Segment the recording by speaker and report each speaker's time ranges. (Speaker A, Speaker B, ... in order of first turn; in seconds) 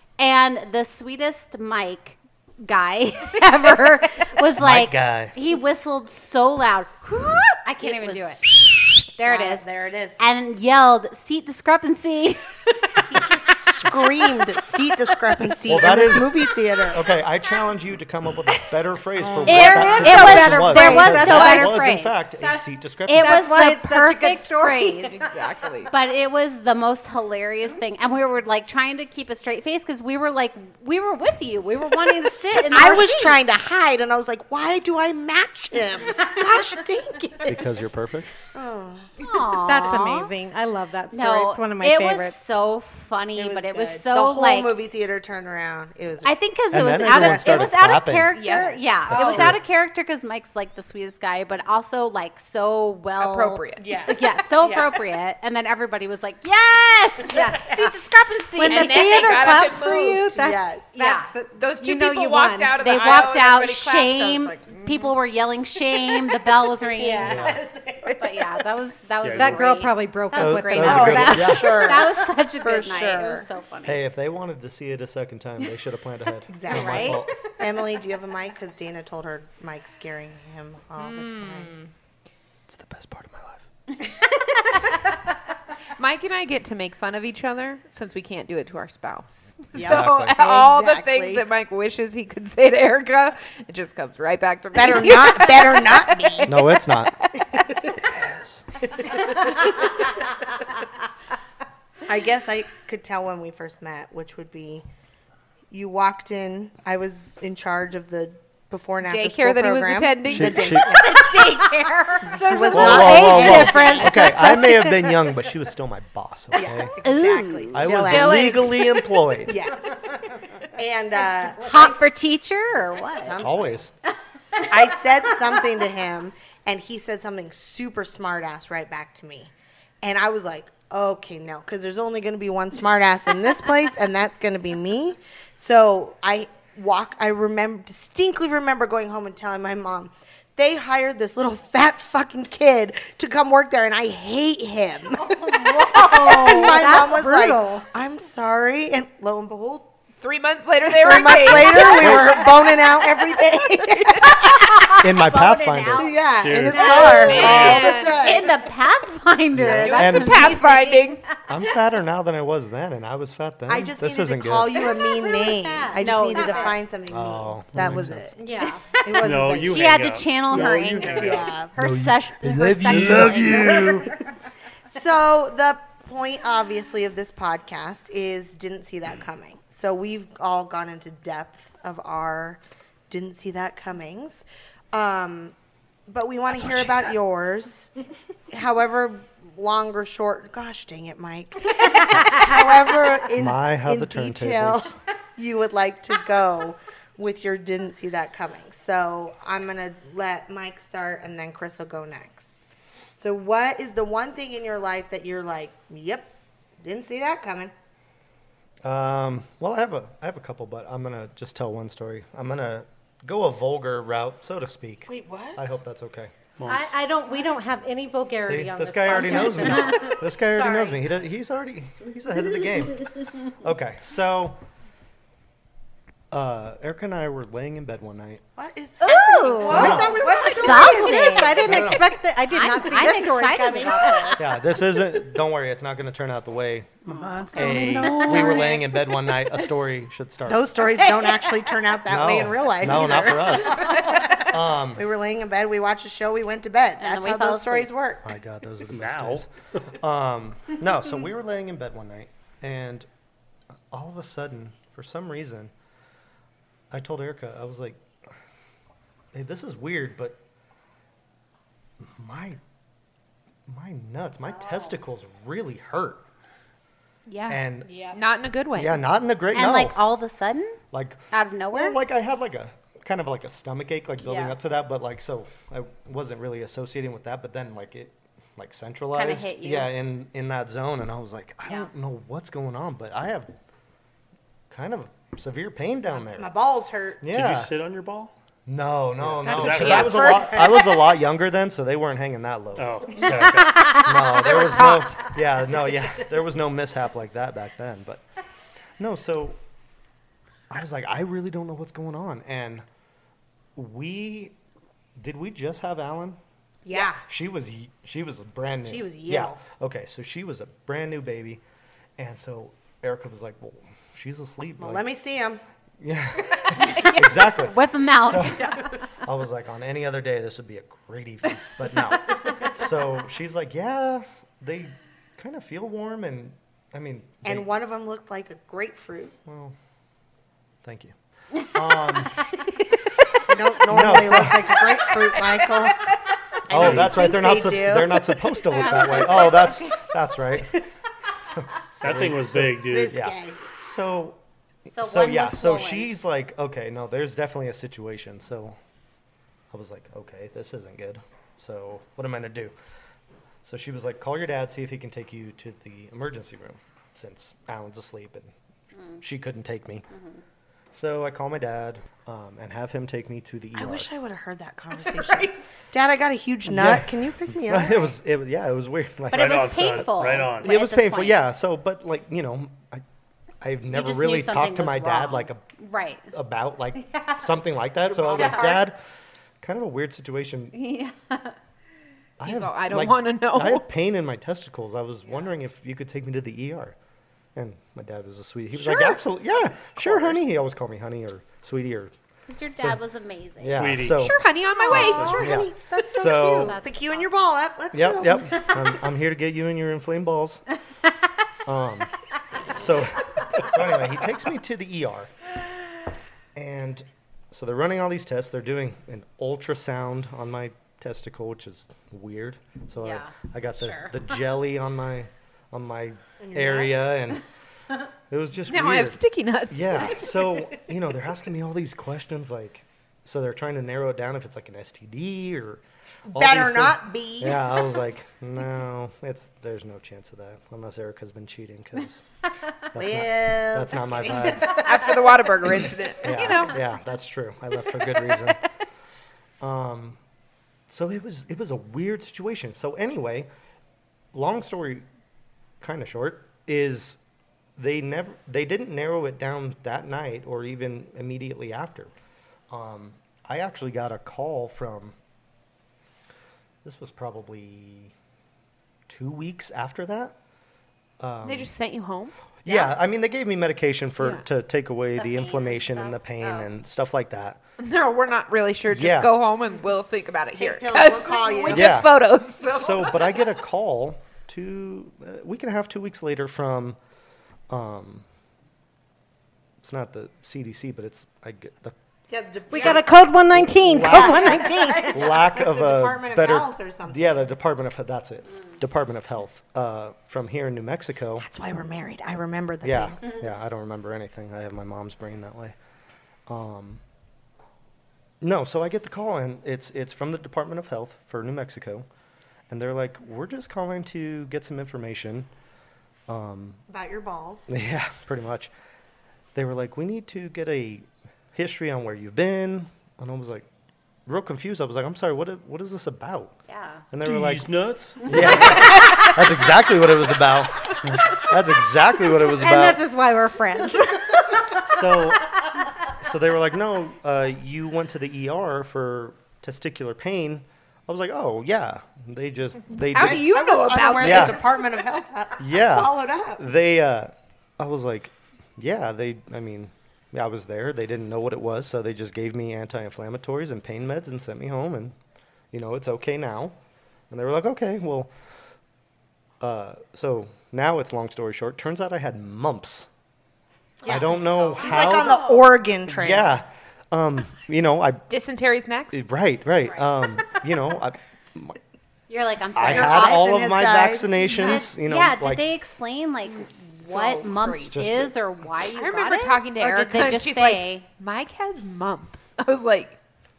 Speaker A: 0.2-8.5, 9.1-9.7, 10.2-14.1, 19.5-22.2, 23.1-25.1, 25.9-33.4, 39.2-40.3, 41.1-44.7, 46.2-59.5, 61.0-61.3, 62.8-67.6, 68.2-74.0, 76.7-77.2, 111.0-114.4, 117.0-118.5, 121.4-123.4, 145.4-146.3, 154.9-156.2, 156.7-161.2, 166.0-166.8, 169.7-174.1, 229.0-231.9, 232.5-234.4, 237.2-237.5, 247.0-247.9, 264.6-264.9, 269.5-270.8, 271.3-272.0, 279.1-279.9, 316.7-318.9, 338.7-340.1, 344.9-346.1, 369.3-371.4, 373.9-376.3, 377.0-377.4, 378.4-378.7, 380.7-381.6, 392.5-393.9, 413.0-414.1, 465.2-466.7, 516.7-517.0, 554.0-555.7, 562.3-563.6, 564.5-571.0
Speaker B: 4.6-5.3, 15.7-23.4, 37.5-38.3, 46.7-48.3, 49.1-49.6, 67.2-67.6, 70.4-71.8, 73.8-77.4, 82.7-83.7, 89.8-90.4, 96.5-97.2, 98.1-98.6, 110.2-111.0, 112.7-116.9, 117.7-119.6, 123.4-123.9, 151.4-152.4, 155.0-156.1, 159.6-160.6, 161.5-164.8, 167.1-168.3, 171.8-174.1, 186.7-187.0, 193.4-195.0, 208.8-216.3, 218.4-224.6, 226.3-228.4, 229.7-230.1, 231.7-232.1, 234.4-237.0, 237.5-240.9, 242.1-245.0, 248.2-253.1, 253.9-255.7, 256.9-258.1, 259.3-260.4, 262.0-262.6, 263.7-266.2, 267.5-267.9, 268.7-270.0, 270.9-283.5, 284.7-286.5, 287.2-287.7, 288.7-293.5, 294.0-298.2, 299.0-299.6, 300.7-302.9, 303.8-304.6, 305.2-306.4, 306.9-311.6, 312.2-315.1, 316.0-327.7, 329.5-329.8, 330.8-332.4, 333.9-334.8, 336.7-340.8, 341.5-348.8, 349.7-352.7, 353.6-358.5, 359.2-360.1, 360.9-364.1, 366.7-373.0, 373.6-375.6, 376.3-379.0, 379.6-380.7, 382.4-387.0, 387.6-392.1, 393.6-394.4, 394.9-396.8, 397.9-400.6, 401.7-402.1, 402.7-405.3, 406.6-417.4, 418.3-419.2, 419.7-432.2, 432.9-434.9, 436.2-438.6, 439.6-440.2, 440.9-443.5, 444.3-445.1, 445.8-447.2, 447.8-452.1, 452.7-455.2, 456.8-458.1, 459.1-460.4, 461.2-461.7, 462.6-467.6, 468.9-469.3, 471.7-472.1, 472.7-477.0, 477.7-478.2, 479.8-482.0, 483.5-491.5, 492.8-495.8, 496.5-497.0, 498.4-502.1, 502.7-505.5, 506.3-506.8, 507.7-508.7, 509.6-513.7, 514.3-516.5, 517.1-517.7, 518.2-523.0, 524.9-525.5, 526.1-533.5, 534.2-534.6, 535.6-545.1, 545.7-546.8, 547.3-548.3, 549.6-553.1, 554.0-555.4, 556.1-558.2, 559.1-561.8, 562.8-565.7, 567.9-568.4
Speaker C: 7.8-10.2, 13.0-17.0, 32.7-37.7, 38.5-39.1, 43.4-46.3, 47.0-47.7, 53.8-55.0, 57.6-57.8, 60.3-60.9, 67.0-68.1, 70.8-73.5, 76.5-81.7, 89.8-91.4, 94.7-96.5, 97.5-98.0, 98.9-99.9, 102.1-104.9, 105.7-111.2, 112.2-114.6, 116.5-118.8, 119.4-120.0, 120.7-123.8, 124.6-149.9, 150.9-154.7, 156.0-158.6, 163.7-168.4, 168.9-170.0, 170.5-171.8, 174.9-185.6, 186.1-187.9, 188.5-202.5, 203.2-207.7, 215.1-215.8, 228.6-231.9, 233.6-234.4, 238.4-238.8, 240.5-248.3, 267.9-268.2, 286.3-287.3, 306.9-307.2, 308.9-309.6, 314.8-315.6, 327.4-329.4, 333.5-336.1, 336.7-338.4, 342.9-343.6, 363.8-368.1, 378.1-378.9, 394.9-398.7, 416.4-417.1, 426.3-427.8, 433.0-434.9, 470.5-471.9, 482.3-483.1, 484.0-487.4, 491.4-493.3, 506.9-507.7, 533.1-536.6, 554.0-556.6, 562.9-564.7
Speaker D: 19.2-21.8, 22.4-25.3, 39.6-42.4, 57.3-57.8, 58.5-62.9, 69.3-72.0, 111.8-114.8, 145.8-147.8, 164.9-166.8, 168.4-168.9, 216.7-221.0, 229.4-234.4, 237.8-238.8, 241.2-241.8, 396.3-397.2, 482.7-485.2, 522.5-524.4, 554.8-555.6
Speaker E: 25.1-25.9, 48.3-49.4, 53.2-54.0, 58.7-60.3, 61.6-65.1, 68.0-68.4, 81.0-81.9, 86.0-97.5, 109.0-111.6, 118.1-118.7, 150.2-154.4, 156.8-158.4, 159.7-161.2, 267.3-269.1, 274.2-274.6, 289.4-290.9, 294.2-295.4, 382.4-383.9, 394.1-395.5, 418.7-420.5, 434.6-436.8, 438.0-438.5, 461.4-462.4, 467.8-473.4, 518.7-519.2, 533.1-535.0, 558.3-559.2, 566.5-568.1, 568.9-573.2
Speaker F: 69.2-69.7, 156.4-157.9, 169.2-171.5, 172.8-173.5, 216.6-217.0, 237.1-238.7, 248.9-249.5, 287.3-288.3, 289.2-290.5, 292.8-294.0, 336.8-337.1, 342.0-343.2, 369.3-370.8, 390.0-390.4, 393.6-394.3, 394.9-395.5, 517.2-519.0, 521.1-521.3